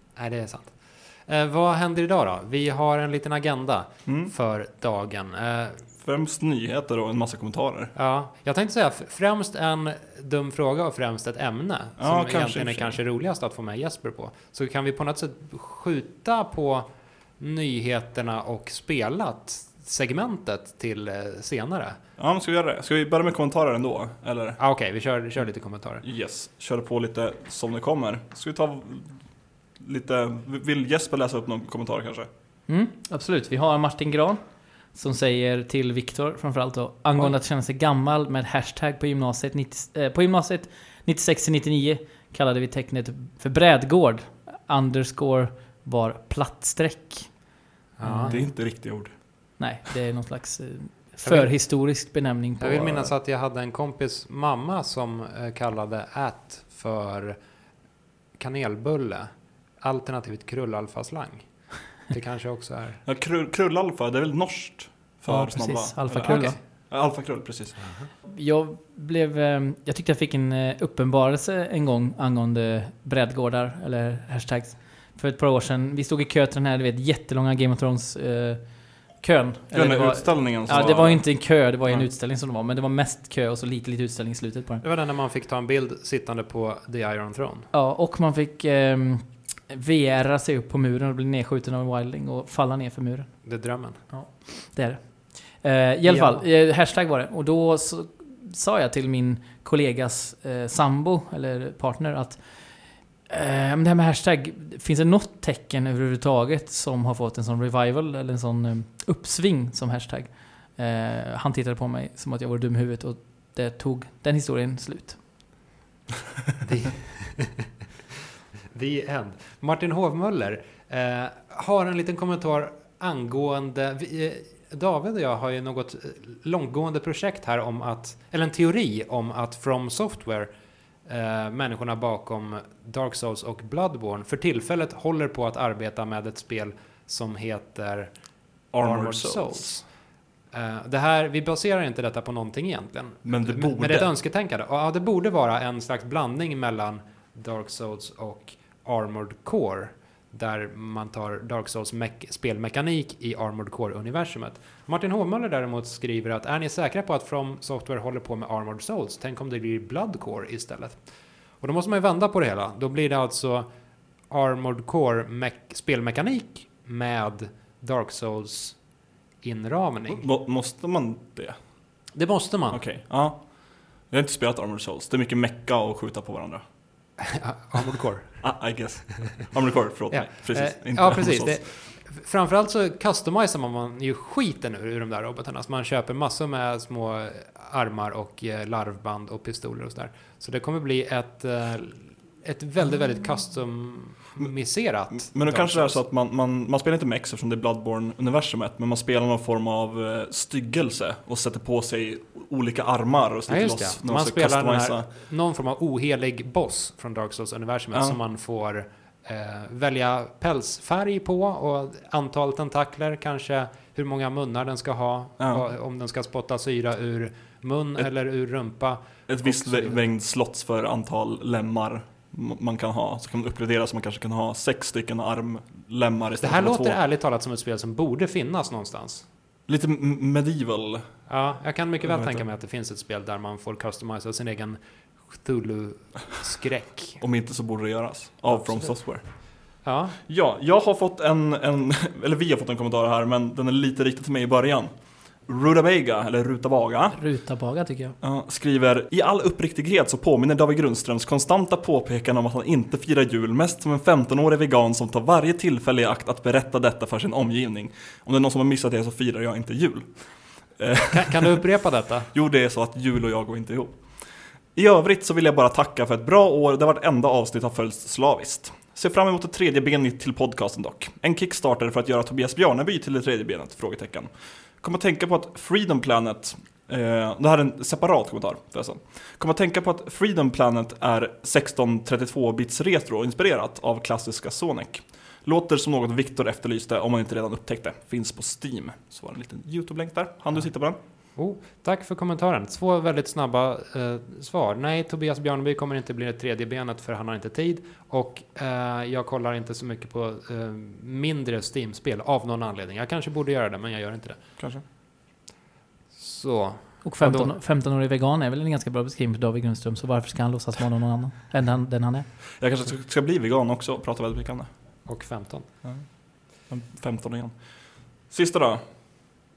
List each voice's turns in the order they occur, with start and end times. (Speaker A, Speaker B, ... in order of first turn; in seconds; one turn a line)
Speaker A: 0.1-5.9
Speaker B: 4.1-4.3
Speaker B: 6.0-7.9
Speaker A: 8.0-22.0
Speaker B: 12.0-13.0
Speaker B: 22.2-24.6
Speaker A: 24.6-26.0
Speaker B: 26.0-32.3
Speaker C: 32.7-47.5
Speaker A: 48.0-48.4
Speaker C: 48.0-49.0
Speaker B: 48.3-49.6
Speaker C: 49.6-53.1
Speaker A: 51.2-51.6
Speaker A: 52.6-57.5
Speaker A: 58.3-63.0
Speaker B: 63.0-67.8
Speaker C: 65.3-66.6
Speaker A: 66.2-66.6
Speaker A: 67.8-68.1
Speaker C: 68.2-84.8
Speaker B: 79.7-81.3
Speaker A: 81.8-82.1
Speaker A: 84.8-87.7
Speaker C: 87.7-115.4
Speaker A: 93.4-94.1
Speaker A: 96.0-96.5
Speaker A: 116.6-117.6
Speaker A: 118.7-168.9
Speaker B: 138.7-139.7
Speaker B: 143.2-144.1
Speaker A: 169.4-170.3
Speaker B: 170.1-172.1
Speaker A: 172.1-172.9
Speaker B: 172.7-176.7
Speaker A: 177.2-178.9
Speaker B: 178.4-181.6
Speaker A: 180.1-196.1
Speaker B: 194.4-205.1
Speaker A: 203.5-220.0
Speaker B: 207.9-208.2
Speaker B: 215.4-215.7
Speaker B: 219.3-227.0
Speaker A: 226.4-229.3
Speaker B: 229.7-231.3
Speaker A: 231.3-237.2
Speaker B: 232.0-232.4
Speaker B: 237.2-247.5
Speaker A: 238.5-240.2
Speaker C: 247.1-248.2
Speaker B: 248.2-291.0
Speaker A: 261.1-262.3
Speaker A: 290.5-304.6
Speaker B: 304.6-304.8
Speaker A: 306.1-307.6
Speaker C: 307.0-312.5
Speaker B: 312.6-315.1
Speaker A: 315.1-315.8
Speaker B: 315.8-318.9